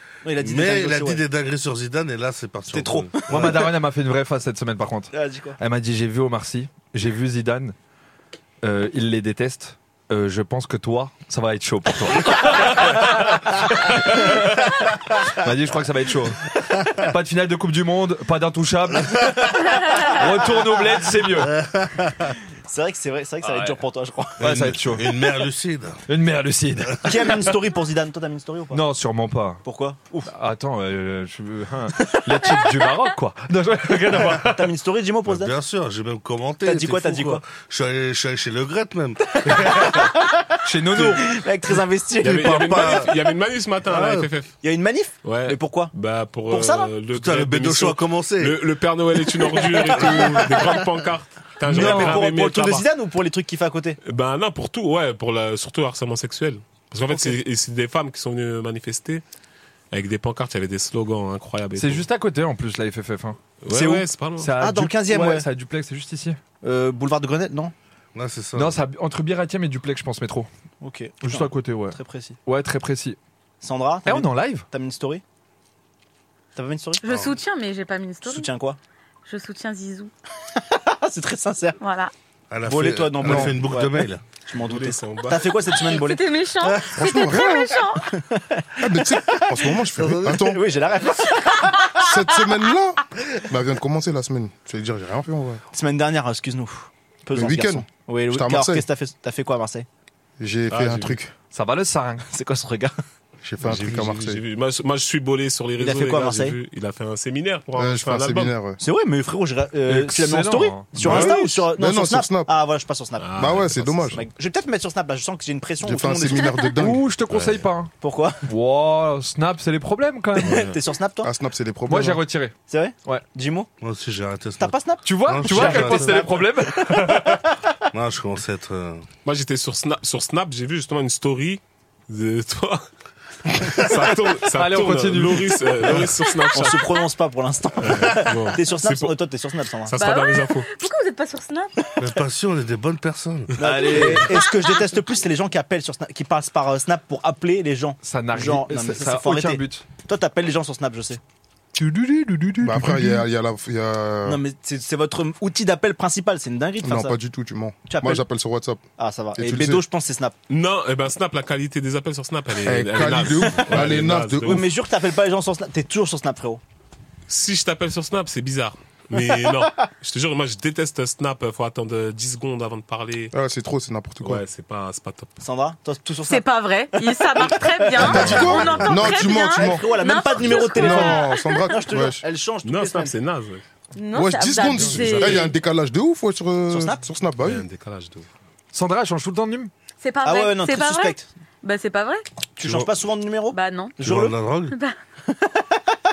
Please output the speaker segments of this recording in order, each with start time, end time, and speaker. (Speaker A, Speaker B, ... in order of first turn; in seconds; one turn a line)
Speaker A: 0.2-1.2
Speaker B: 0.4-3.6
Speaker A: 2.7-3.6
Speaker C: 3.3-7.7
Speaker A: 5.1-5.6
Speaker C: 8.6-14.6
Speaker C: 15.4-16.4
Speaker C: 17.1-19.4
Speaker C: 20.1-21.5
Speaker B: 21.4-22.3
Speaker A: 22.7-24.6
Speaker C: 23.4-23.8
Speaker C: 24.4-25.1
Speaker B: 24.4-26.0
Speaker C: 26.1-27.1
Speaker A: 27.0-28.8
Speaker C: 28.7-29.6
Speaker A: 29.6-30.3
Speaker C: 30.3-34.6
Speaker A: 34.1-35.5
Speaker B: 35.3-39.9
Speaker A: 36.6-37.4
Speaker A: 39.3-43.0
Speaker C: 40.6-41.3
Speaker D: 42.2-44.5
Speaker B: 42.2-43.2
Speaker B: 43.9-44.3
Speaker A: 44.6-45.9
Speaker D: 45.2-52.8
Speaker A: 46.5-46.9
Speaker B: 47.1-48.6
Speaker A: 49.9-50.8
Speaker B: 50.0-50.4
Speaker A: 51.6-54.0
Speaker C: 51.7-52.2
Speaker D: 54.0-59.2
Speaker A: 57.1-57.3
Speaker D: 59.9-62.0
Speaker C: 61.7-63.4
Speaker D: 63.6-64.5
Speaker A: 63.7-64.1
Speaker C: 64.4-66.4
Speaker A: 64.6-65.5
Speaker A: 66.6-67.7
Speaker B: 68.1-68.8
Speaker C: 68.5-70.5
Speaker A: 70.8-72.4
Speaker C: 71.2-73.2
Speaker A: 73.6-75.2
Speaker C: 74.0-74.7
Speaker A: 76.5-77.0
Speaker E: 77.0-78.5
Speaker B: 77.1-77.3
Speaker A: 78.2-78.8
Speaker E: 79.2-80.1
Speaker A: 80.6-81.8
Speaker E: 81.8-82.1
Speaker B: 82.5-84.2
Speaker A: 82.7-86.2
Speaker F: 83.2-83.5
Speaker D: 84.7-85.6
Speaker E: 85.7-88.1
Speaker F: 86.9-87.8
Speaker A: 88.1-92.1
Speaker F: 88.8-90.6
Speaker F: 92.0-95.6
Speaker A: 95.7-99.9
Speaker F: 97.3-98.8
Speaker F: 100.4-101.3
Speaker D: 100.7-101.2
Speaker C: 101.5-102.2
Speaker A: 102.3-103.0
Speaker F: 103.4-104.4
Speaker D: 103.6-108.5
Speaker A: 105.8-106.5
Speaker F: 107.7-108.8
Speaker A: 108.8-113.3
Speaker C: 109.8-111.3
Speaker F: 111.0-112.5
Speaker D: 113.2-114.2
Speaker F: 113.4-114.2
Speaker A: 114.0-116.5
Speaker F: 115.8-117.0
Speaker C: 116.8-117.9
Speaker D: 117.3-117.6
Speaker A: 118.0-118.4
Speaker C: 118.5-120.7
Speaker A: 120.4-121.3
Speaker F: 121.2-122.2
Speaker C: 121.9-123.2
Speaker A: 122.7-123.7
Speaker B: 123.8-126.5
Speaker A: 124.6-126.4
Speaker C: 125.0-127.4
Speaker B: 127.9-129.1
Speaker D: 129.2-132.8
Speaker D: 133.7-136.9
Speaker C: 134.5-136.1
Speaker A: 136.5-139.9
Speaker D: 137.8-139.1
Speaker D: 139.9-140.7
Speaker E: 139.9-142.1
Speaker B: 142.0-143.6
Speaker A: 143.6-151.2
Speaker C: 143.6-144.3
Speaker E: 143.9-144.9
Speaker C: 148.0-149.8
Speaker C: 151.8-153.2
Speaker F: 152.6-154.4
Speaker A: 154.2-157.2
Speaker F: 156.8-158.8
Speaker A: 157.8-158.2
Speaker A: 159.0-160.3
Speaker F: 159.3-159.8
Speaker D: 160.5-164.6
Speaker F: 162.6-164.6
Speaker A: 164.4-166.6
Speaker D: 167.3-173.3
Speaker F: 173.3-174.4
Speaker D: 174.2-175.3
Speaker A: 175.4-183.1
Speaker E: 176.3-181.7
Speaker F: 178.0-179.8
Speaker D: 178.1-178.5
Speaker F: 180.5-182.2
Speaker D: 182.7-183.6
Speaker E: 183.9-185.5
Speaker F: 184.1-187.7
Speaker D: 184.6-185.5
Speaker A: 186.7-187.0
Speaker D: 187.4-188.3
Speaker C: 188.7-189.7
Speaker E: 190.0-192.2
Speaker A: 190.2-191.3
Speaker A: 192.5-194.3
Speaker E: 193.5-194.0
Speaker B: 194.0-194.7
Speaker E: 194.7-195.0
Speaker A: 195.3-196.0